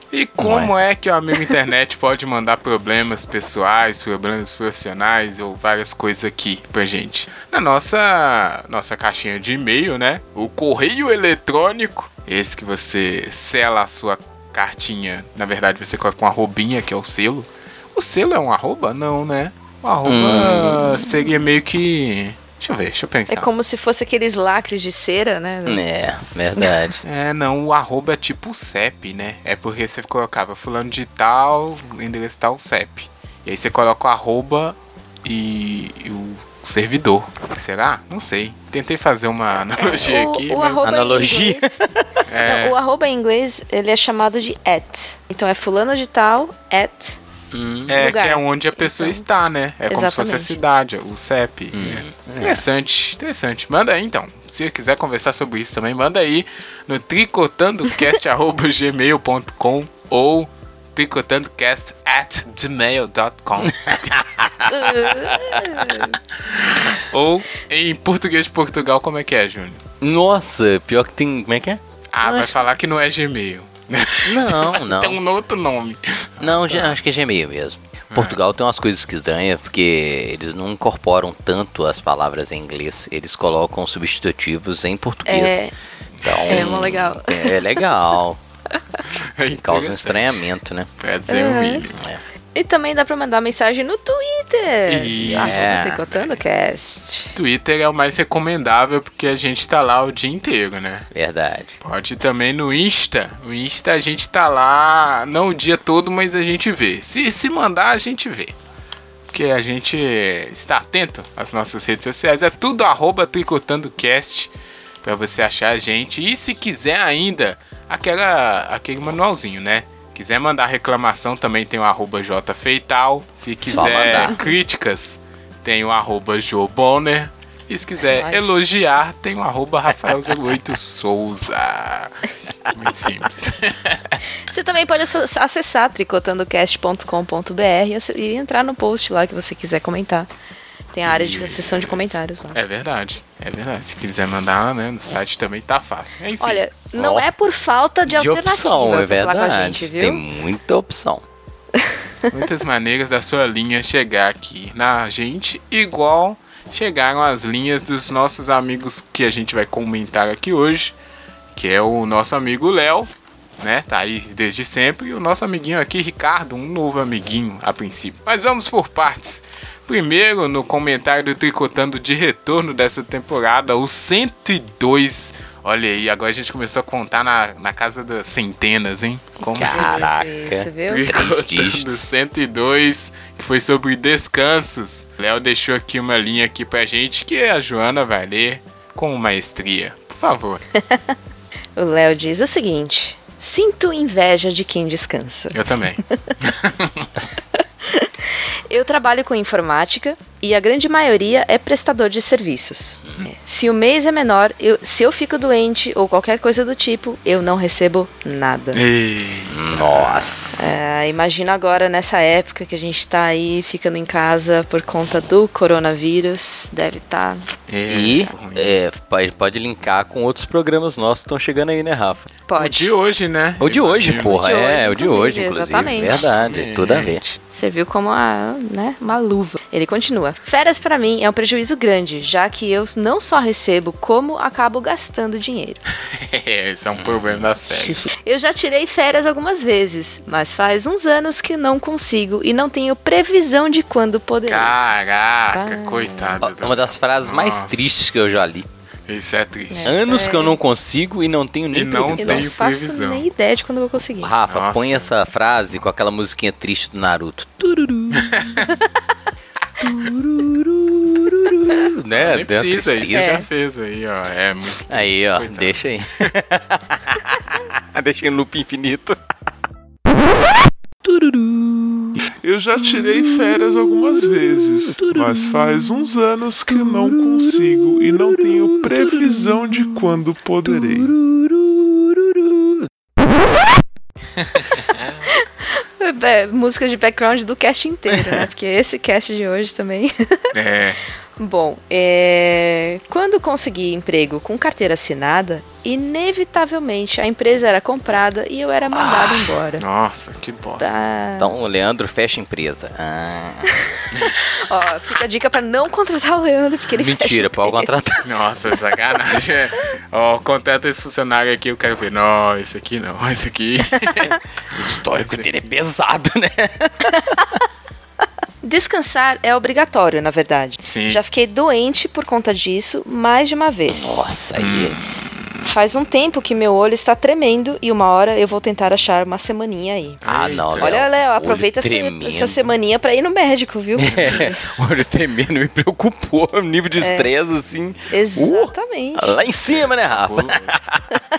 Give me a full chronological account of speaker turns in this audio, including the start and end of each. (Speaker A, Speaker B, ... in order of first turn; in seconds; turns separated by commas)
Speaker A: 0.1-23.5, Speaker B: 0.4-0.7, Speaker B: 20.0-21.0, Speaker C: 23.3-25.8, Speaker B: 25.6-27.0, Speaker A: 27.0-40.9, Speaker C: 39.8-41.9, Speaker B: 40.8-42.2, Speaker A: 42.3-42.8, Speaker C: 42.4-47.2, Speaker A: 47.5-64.1, Speaker C: 47.9-49.2, Speaker C: 49.9-50.6, Speaker B: 51.7-52.6, Speaker B: 63.6-65.8, Speaker C: 64.7-66.2, Speaker A: 66.5-69.8, Speaker B: 70.0-71.8, Speaker A: 72.1-77.0, Speaker B: 74.3-75.2, Speaker B: 76.4-85.7, Speaker A: 78.1-78.4, Speaker C: 85.3-85.7, Speaker B: 86.2-88.4, Speaker C: 86.5-87.5, Speaker A: 89.4-90.4, Speaker B: 89.5-90.9, Speaker A: 91.0-92.0, Speaker C: 91.3-91.8, Speaker B: 92.0-92.2, Speaker C: 92.5-97.3, Speaker A: 94.9-96.4, Speaker B: 95.2-96.0, Speaker A: 97.3-101.1, Speaker B: 101.1-101.7, Speaker A: 101.8-108.5, Speaker A: 109.3-114.5, Speaker A: 115.0-134.2, Speaker C: 123.7-124.5, Speaker B: 123.7-124.4, Speaker C: 128.0-128.5, Speaker C: 134.5-140.3, Speaker C: 140.9-142.6, Speaker A: 141.0-146.7, Speaker C: 146.4-150.2, Speaker B: 146.9-147.3, Speaker B: 148.1-151.2, Speaker A: 152.3-160.9, Speaker A: 161.5-163.1, Speaker A: 163.6-180.1, Speaker C: 179.4-181.1, Speaker B: 179.5-182.1, Speaker A: 180.9-190.6, Speaker C: 190.8-191.1, Speaker C: 191.8-195.8, Speaker A: 195.5-197.1, Speaker C: 197.8-208.8, Speaker A: 208.7-210.6, Speaker B: 209.5-210.8, Speaker C: 210.6-217.5, Speaker A: 217.7-218.8, Speaker B: 217.9-222.3, Speaker C: 222.5-222.9, Speaker A: 222.6-224.5, Speaker B: 223.6-227.2, Speaker C: 224.2-226.2, Speaker A: 225.7-227.4, Speaker C: 227.5-235.8, Speaker A: 236.2-238.1, Speaker B: 236.9-237.5, Speaker C: 237.8-244.7, Speaker A: 244.4-248.3, Speaker C: 245.5-246.4, Speaker B: 246.4-248.7, Speaker A: 249.1-249.9, Speaker C: 249.7-250.6, Speaker B: 249.8-252.4, Speaker A: 251.7-253.2, Speaker C: 252.2-254.3, Speaker B: 254.2-258.6, Speaker A: 254.5-255.3, Speaker A: 258.2-258.7, Speaker B: 260.0-263.4, Speaker A: 262.1-265.9, Speaker C: 263.1-263.4, Speaker B: 264.9-269.2, Speaker D: 272.3-281.1, Speaker A: 284.9-285.2, Speaker C: 285.4-290.5, Speaker A: 290.5-291.0, Speaker C: 291.4-299.8, Speaker A: 299.0-301.0, Speaker C: 300.8-301.5, Speaker B: 301.4-303.8, Speaker C: 303.7-308.1, Speaker B: 306.9-308.2, Speaker A: 308.2-315.4, Speaker B: 314.7-317.4, Speaker C: 318.6-324.2, Speaker A: 320.8-321.2, Speaker B: 323.9-325.0, Speaker A: 324.6-325.6, Speaker C: 325.6-330.2, Speaker A: 330.2-331.0, Speaker B: 330.2-332.7, Speaker C: 330.8-334.6, Speaker B: 333.9-341.2, Speaker C: 337.0-337.3, Speaker C: 338.1-339.4, Speaker A: 339.7-340.8